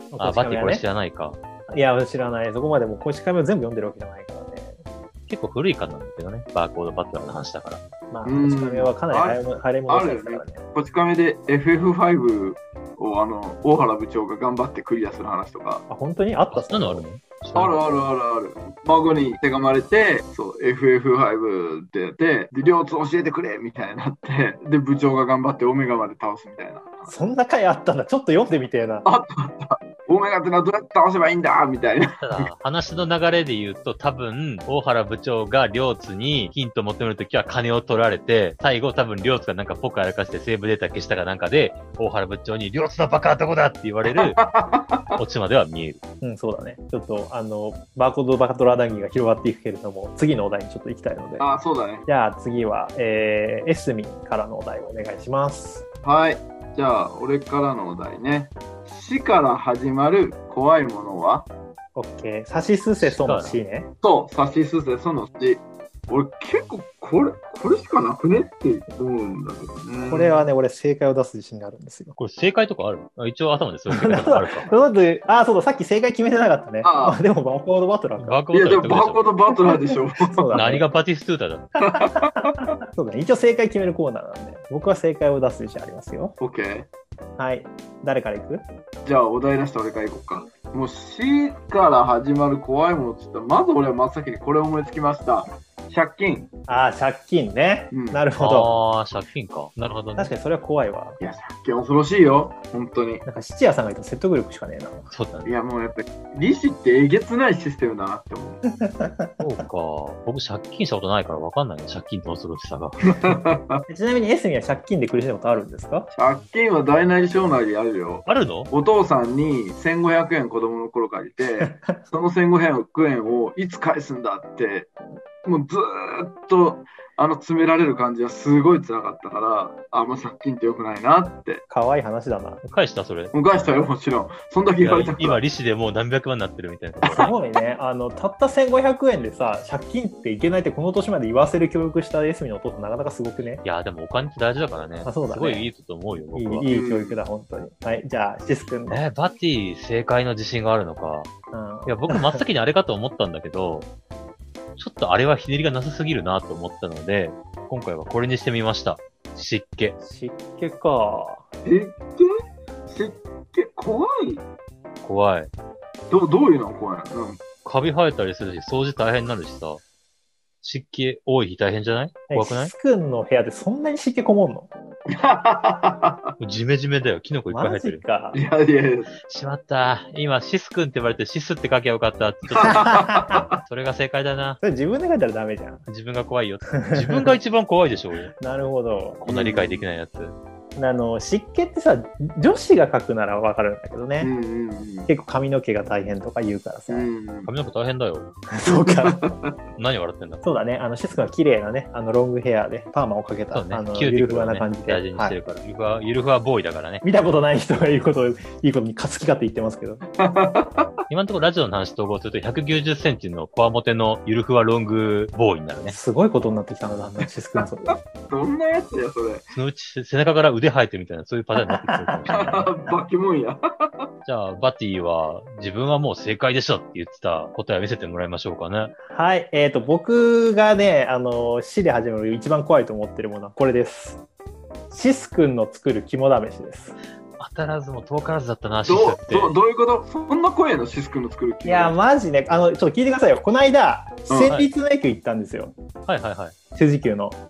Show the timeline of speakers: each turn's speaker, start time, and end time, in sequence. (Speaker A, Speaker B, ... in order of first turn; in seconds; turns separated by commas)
Speaker A: 0.1-0.8, Speaker B: 0.2-1.4, Speaker A: 1.7-4.8, Speaker B: 5.3-7.8, Speaker A: 8.1-10.6, Speaker C: 8.2-15.8, Speaker A: 15.9-17.1, Speaker B: 16.5-17.9, Speaker C: 17.6-27.1, Speaker A: 27.1-29.1, Speaker C: 29.1-32.5, Speaker B: 32.2-44.4, Speaker C: 44.1-45.2, Speaker B: 45.1-46.0, Speaker A: 46.2-51.5, Speaker C: 51.4-52.1, Speaker A: 52.1-55.9, Speaker C: 56.0-61.5, Speaker A: 62.0-63.9, Speaker B: 63.0-63.6, Speaker C: 64.0-70.5, Speaker A: 70.1-72.2, Speaker B: 72.2-74.7, Speaker A: 73.9-78.4, Speaker C: 76.8-77.2, Speaker B: 78.2-79.3, Speaker C: 78.5-80.8, Speaker A: 79.7-80.9, Speaker B: 80.5-81.7, Speaker C: 81.8-82.7, Speaker A: 81.9-86.3, Speaker C: 86.4-86.9, Speaker A: 87.4-88.6, Speaker C: 89.0-96.5, Speaker A: 96.7-98.7, Speaker C: 97.9-98.2, Speaker B: 98.4-100.3, Speaker A: 100.2-101.2, Speaker C: 101.2-103.2, Speaker A: 103.2-105.1, Speaker B: 105.1-105.5, Speaker C: 105.5-108.6, Speaker A: 108.8-109.4, Speaker B: 109.4-113.3, Speaker C: 113.2-113.8, Speaker A: 113.9-116.1, Speaker C: 116.1-124.9, Speaker B: 118.3-118.7, Speaker A: 121.6-122.0, Speaker C: 125.4-131.6, Speaker A: 131.7-132.6, Speaker B: 132.6-133.4, Speaker C: 133.3-135.4, Speaker B: 134.8-137.3, Speaker C: 137.0-137.3, Speaker A: 137.2-143.6, Speaker B: 143.6-146.7, Speaker A: 145.1-145.7, Speaker A: 146.3-149.0, Speaker C: 146.7-147.2, Speaker B: 148.9-151.3, Speaker A: 151.5-152.4, Speaker B: 151.9-153.9, Speaker B: 154.8-160.0, Speaker A: 160.0-161.4, Speaker C: 161.6-162.3, Speaker C: 162.9-164.4, Speaker B: 165.0-165.5, Speaker C: 166.1-167.4, Speaker B: 167.6-169.8, Speaker B: 170.6-172.7, Speaker A: 172.3-174.7, Speaker C: 175.1-176.3, Speaker B: 176.4-178.0, Speaker A: 177.5-178.4, Speaker C: 178.3-179.1, Speaker B: 179.3-184.6, Speaker C: 182.6-183.6, Speaker A: 182.6-183.4, Speaker A: 184.6-185.9, Speaker B: 185.9-188.3, Speaker A: 186.7-187.3, Speaker A: 188.4-189.2, Speaker B: 189.2-190.4, Speaker C: 189.3-189.8, Speaker A: 190.8-194.3, Speaker C: 194.2-195.1, Speaker A: 195.1-197.1, Speaker C: 196.9-197.5, Speaker B: 197.4-198.3, Speaker A: 198.5-199.3, Speaker C: 198.6-199.6, Speaker B: 199.8-200.4, Speaker A: 200.4-205.4, Speaker B: 203.5-207.0, Speaker A: 207.0-210.0, Speaker C: 210.2-210.9, Speaker B: 211.1-216.0, Speaker A: 215.9-218.0, Speaker C: 217.6-219.5, Speaker B: 219.5-222.8, Speaker A: 221.6-222.3, Speaker C: 222.3-224.1, Speaker B: 224.2-228.9, Speaker A: 229.1-234.2, Speaker A: 234.9-237.0, Speaker B: 237.4-239.5, Speaker C: 238.9-241.9, Speaker A: 241.6-245.8, Speaker B: 246.1-246.6, Speaker A: 246.7-247.4